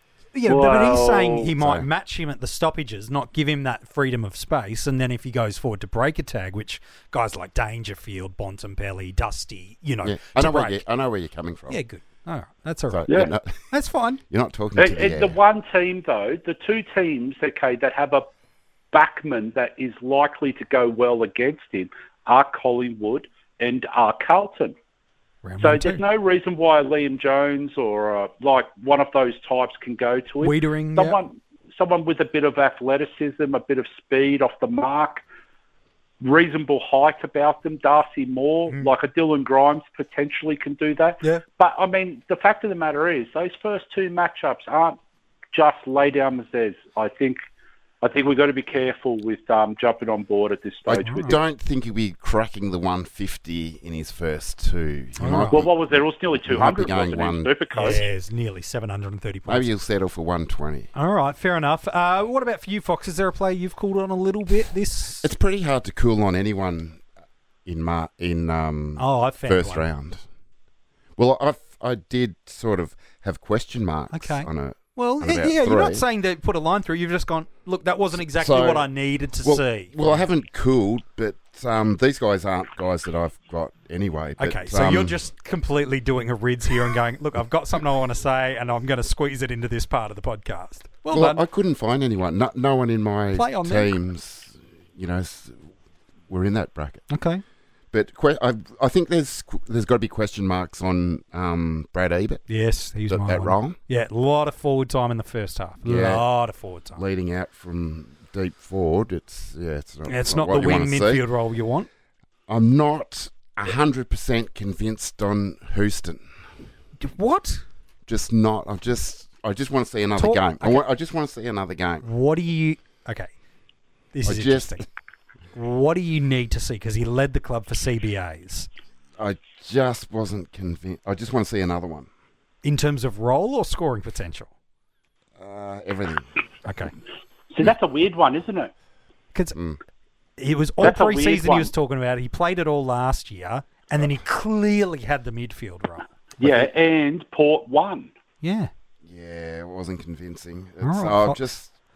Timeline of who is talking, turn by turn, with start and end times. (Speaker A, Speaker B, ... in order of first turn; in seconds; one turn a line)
Speaker A: 0.3-10.8
Speaker B: 0.5-1.5
Speaker C: 1.6-1.9
Speaker C: 10.0-11.8
Speaker A: 11.7-13.1
Speaker C: 12.9-13.6
Speaker A: 13.7-14.2
Speaker C: 14.3-15.4
Speaker B: 14.8-18.3
Speaker B: 18.9-24.8
Speaker A: 25.4-26.0
Speaker B: 25.6-35.2
Speaker A: 30.4-31.2
Speaker B: 36.2-45.0
Speaker B: 45.5-47.4
Speaker B: 48.0-51.4
Speaker C: 50.9-57.5
Speaker A: 51.0-51.3
Speaker A: 55.2-55.6
Speaker B: 55.5-58.0
Speaker A: 57.8-59.7
Speaker C: 59.5-60.9
Speaker A: 61.0-65.3
Speaker C: 65.2-67.0
Speaker C: 67.7-70.2
Speaker A: 69.0-69.9
Speaker C: 71.2-76.0
Speaker A: 74.1-80.2
Speaker C: 78.2-78.9
Speaker C: 79.4-85.2
Speaker A: 84.4-91.4
Speaker C: 91.1-95.7
Speaker A: 93.3-93.9
Speaker C: 96.3-97.0
Speaker A: 97.1-97.4
Speaker C: 97.9-102.4
Speaker A: 102.5-107.0
Speaker C: 103.1-103.8
Speaker C: 105.8-106.3
Speaker C: 107.0-111.2
Speaker A: 110.1-111.9
Speaker C: 112.5-116.2
Speaker A: 117.0-117.6
Speaker C: 118.1-122.0
Speaker A: 120.2-120.8
Speaker A: 122.0-123.3
Speaker A: 124.1-124.9
Speaker C: 124.2-124.8
Speaker A: 125.5-128.7
Speaker C: 129.2-132.1
Speaker A: 132.6-134.5
Speaker C: 135.4-136.3
Speaker A: 136.7-136.9
Speaker B: 137.5-138.7
Speaker A: 140.4-146.1
Speaker B: 140.8-141.7
Speaker C: 146.4-146.7
Speaker B: 146.4-148.1
Speaker A: 148.4-148.7
Speaker C: 149.0-151.7
Speaker A: 150.8-151.4